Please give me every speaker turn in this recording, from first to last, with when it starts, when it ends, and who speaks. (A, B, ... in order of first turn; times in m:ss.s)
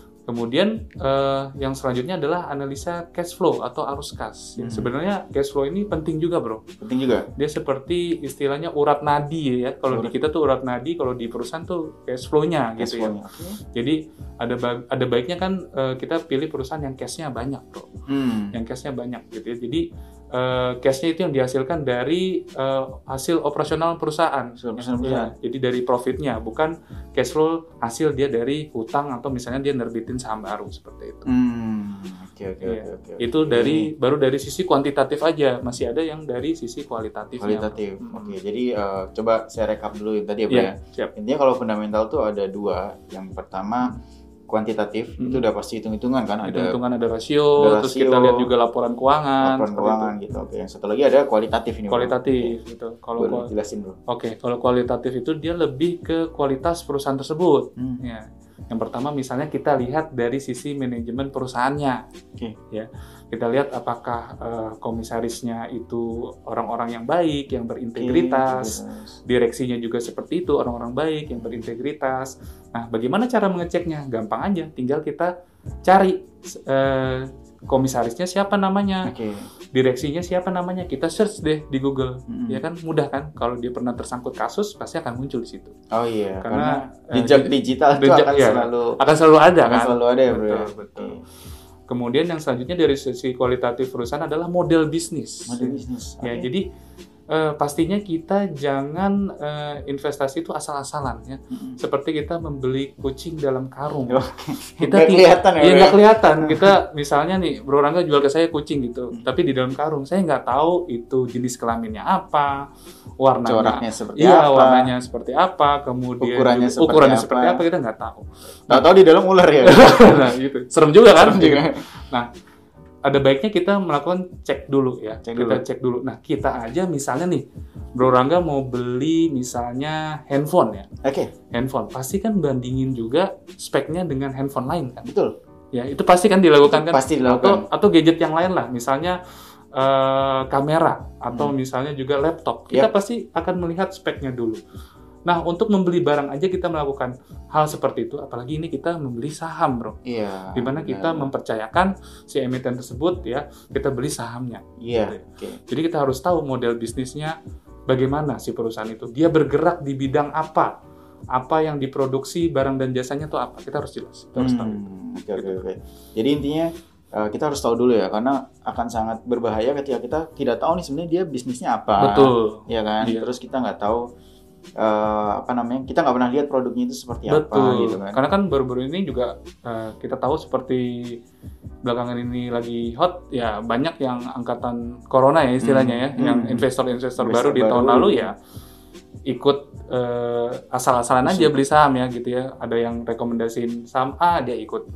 0:00.3-0:06.6 A
0:04.6-0:04.9 B
0:06.8-0:07.3 B
0:07.4-0:13.2 A
0:12.8-0:13.6 B
0:13.7-0:17.9 A
0:18.1-0:18.6 B
0:18.5-0:31.3 A
0:24.6-0:25.3 B
0:31.3-0:33.9 B
0:32.6-0:38.4 A
0:37.4-0:44.0 B
0:40.5-0:41.1 A
0:44.5-0:46.8 B
0:45.2-0:45.4 A
0:46.4-0:50.1 A
0:47.6-0:48.5 B
0:49.4-0:52.6 B
0:51.9-0:53.5 A
0:53.2-0:54.0 B
0:54.1-1:02.0 A
0:57.8-0:58.0 B
1:02.7-1:15.3 A
1:08.0-1:09.1 B
1:15.8-1:19.1 A
1:19.0-1:19.5 B
1:19.7-1:25.8 A
1:22.3-1:22.6 B
1:25.9-1:29.0 B
1:26.4-1:31.2 A
1:29.6-1:31.2 B
1:31.9-1:36.7 A
1:35.5-1:36.5 B
1:37.3-1:44.2 A
1:41.5-1:41.8 B
1:44.1-1:46.8 B
1:44.8-1:52.6 A
1:53.2-1:58.9 A
1:53.4-1:54.9 B
1:56.2-1:57.6 B
1:58.7-2:00.3 B
1:59.6-2:02.3 A
2:01.1-2:01.8 B
2:03.0-2:10.9 A
2:05.2-2:05.6 B
2:11.0-2:11.3 B
2:11.5-2:15.1 A
2:15.0-2:15.4 B
2:15.7-2:19.2 A
2:16.7-2:17.6 B
2:19.7-2:24.6 A
2:25.3-2:30.0 A
2:30.1-2:31.3 B
2:30.6-2:37.4 A
2:34.8-2:35.6 B
2:37.9-2:40.7 A
2:41.3-2:44.8 A
2:44.4-2:54.1 B
2:45.4-2:45.6 A
2:52.0-2:53.3 A
2:54.8-2:58.2 B
2:57.3-3:01.2 A
3:01.8-3:08.3 A
3:05.6-3:08.3 B
3:09.3-3:14.9 A
3:11.2-3:11.6 B